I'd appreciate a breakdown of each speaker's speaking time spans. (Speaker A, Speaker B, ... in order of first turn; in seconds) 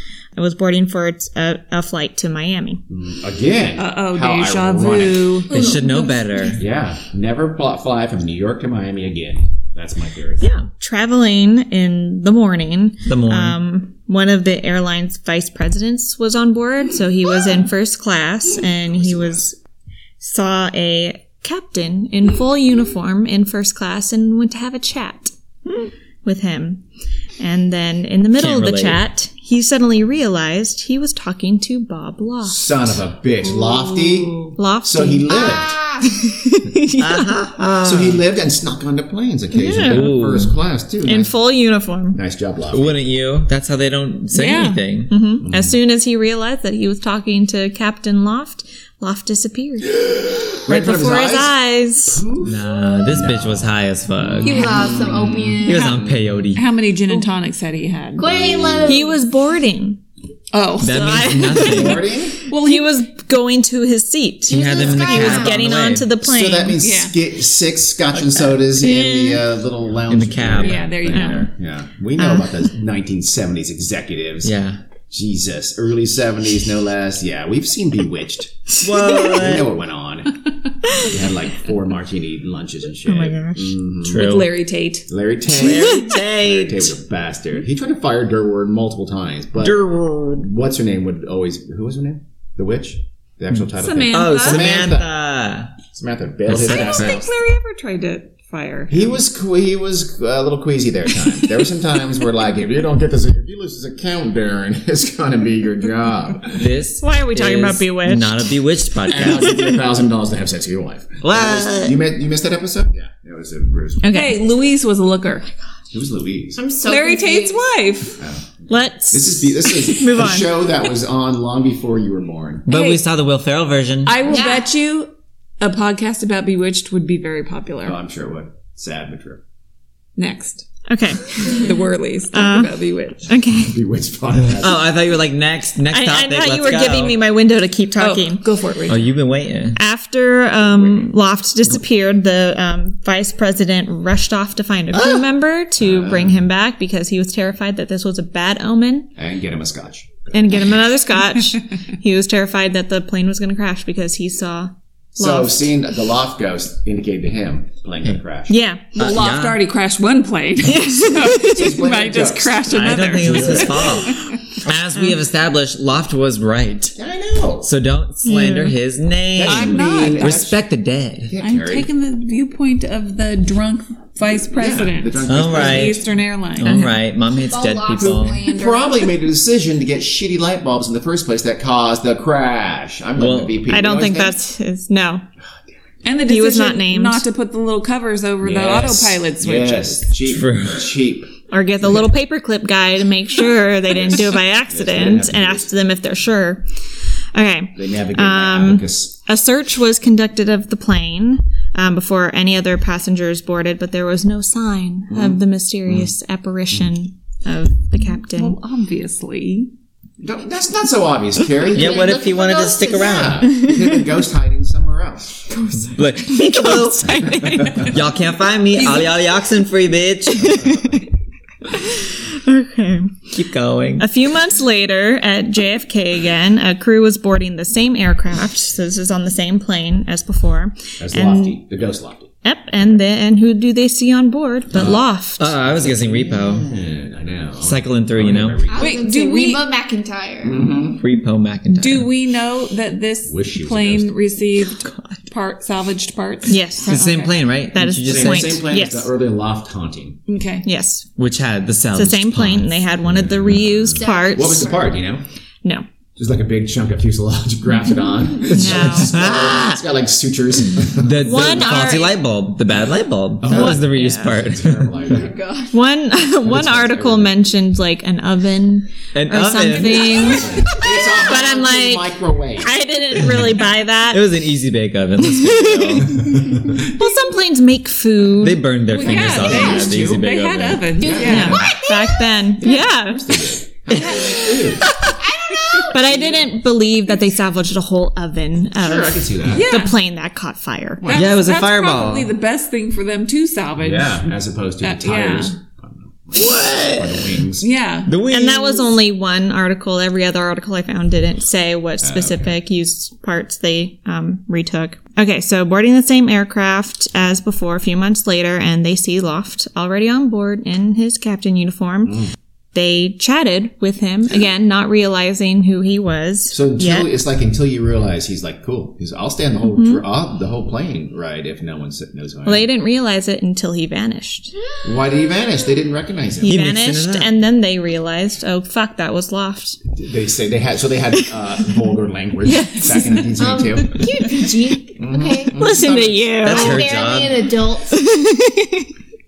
Speaker A: 0.3-2.8, 10.4-19.6, 20.2-26.8, 27.4-32.6, 34.5-37.4, 39.5-40.1, 41.0-42.2, 45.1-52.2, 58.8-60.0, 60.8-66.8, 68.8-69.4, 71.1-71.5, 72.2-72.7, 78.9-79.2, 83.0-83.7, 85.6-86.1, 107.0-108.5, 114.0-114.4, 118.7-120.6, 130.9-131.7, 132.3-133.8, 135.9-138.4, 139.8-149.1, 150.3-155.7, 158.5-158.9, 160.6-161.7, 168.2-168.8, 176.6-177.0, 183.7-185.2, 186.2-187.2, 191.5-196.7, 197.3-208.6, 213.4-213.9, 216.4-217.4, 220.4-220.8, 221.7-223.2, 224.0-231.6, 232.4-235.5, 246.5-247.1, 247.7-249.1, 250.6-251.1, 251.9-254.8, 258.5-259.2, 261.2-262.2, 263.5-264.4, 265.7-274.4, 275.2-278.7, 281.2-283.4, 285.9-291.1, 298.3-317.1, 319.6-320.0, 322.4-324.5, 326.4-329.8, 335.6-336.8, 337.9-338.9
Speaker B: 2.9-5.5, 6.5-10.5, 18.8-19.5, 32.4-35.8, 37.8-41.3, 42.1-43.0, 45.4-45.8, 50.0-56.3, 58.2-59.0, 61.6-62.4, 66.1-74.5, 75.1-84.3, 85.1-95.1, 95.8-97.3, 98.9-106.7, 109.0-114.2, 115.9-116.6, 118.2-122.7, 127.8-129.4, 133.6-134.9, 140.6-141.1, 145.8-146.4, 149.2-150.7, 155.1-158.6, 161.2-164.1, 166.9-167.7, 169.3-170.6, 171.3-171.9, 174.5-176.0, 178.0-184.4, 188.5-191.3, 194.0-195.7, 197.7-199.2, 205.1-206.1, 210.2-215.5, 217.4-217.9, 220.5-221.0, 231.0-233.0, 234.7-239.0, 240.4-241.0, 243.2-244.2, 248.0-250.2, 253.0-255.2, 256.1-261.7, 263.4-265.4, 266.4-267.3, 270.0-272.8, 276.2-276.9, 279.3-280.2, 281.0-281.8, 282.5-285.0, 286.0-286.5, 288.8-289.7, 291.0-291.3, 293.8-297.7, 302.0-302.5, 312.1-312.3, 316.5-322.7, 324.8-326.6, 329.9-334.1, 335.0-336.4
Speaker C: 3.8-5.5, 33.6-34.5, 44.3-44.8, 56.5-58.5, 60.5-61.6, 62.5-63.0, 66.8-67.2, 70.6-71.5, 84.1-85.0, 93.7-94.7, 96.6-99.2, 114.1-115.5, 116.8-118.2, 122.7-123.0, 124.0-128.0, 130.2-130.7, 131.4-133.2, 138.0-139.1, 158.9-164.3, 169.4-170.4, 171.4-176.7, 186.0-190.1, 208.3-209.7, 216.5-218.0, 218.7-219.2, 238.7-239.6, 241.7-247.4, 250.3-250.7, 278.9-281.7, 283.9-284.9, 289.5-290.0, 291.0-294.3, 294.8-295.6, 297.6-298.1, 332.5-333.3
Speaker D: 5.5-6.3, 35.3-36.2, 54.4-56.0, 58.1-59.2, 64.5-65.7, 116.6-117.6, 124.2-124.7, 177.3-179.1, 211.7-213.2, 238.7-240.7, 253.9-255.0, 265.1-265.8, 270.2-271.5, 279.5-279.7, 281.0-282.3, 284.9-286.0, 324.8-325.4, 333.4-335.8, 336.4-338.0
Speaker E: 5.5-6.6, 13.1-13.6, 28.3-29.0, 37.0-38.2, 39.8-40.5, 42.7-45.1, 52.4-54.9, 55.6-56.6, 60.8-62.1, 64.5-66.1, 70.1-71.2, 74.4-74.8, 78.8-79.7, 84.0-84.5, 85.5-86.9, 89.6-90.5, 94.1-95.7, 96.5-97.2, 106.5-109.6, 111.2-112.0, 122.7-124.3, 134.6-137.2, 138.9-139.8, 144.9-145.3, 159.0-159.6, 162.7-166.9, 167.6-171.3, 175.3-176.0, 176.6-178.5, 183.2-183.6, 188.4-189.1, 190.3-190.9, 211.7-213.5, 215.7-221.0, 223.3-224.1, 234.8-236.7, 237.6-238.6, 240.9-242.1, 244.8-245.2, 246.8-248.6, 251.2-252.8, 258.5-259.8, 260.9-265.0, 269.1-270.4, 274.1-276.2, 278.4-281.0, 291.1-292.3, 296.3-297.4, 298.1-298.9, 326.4-327.3, 336.4-337.5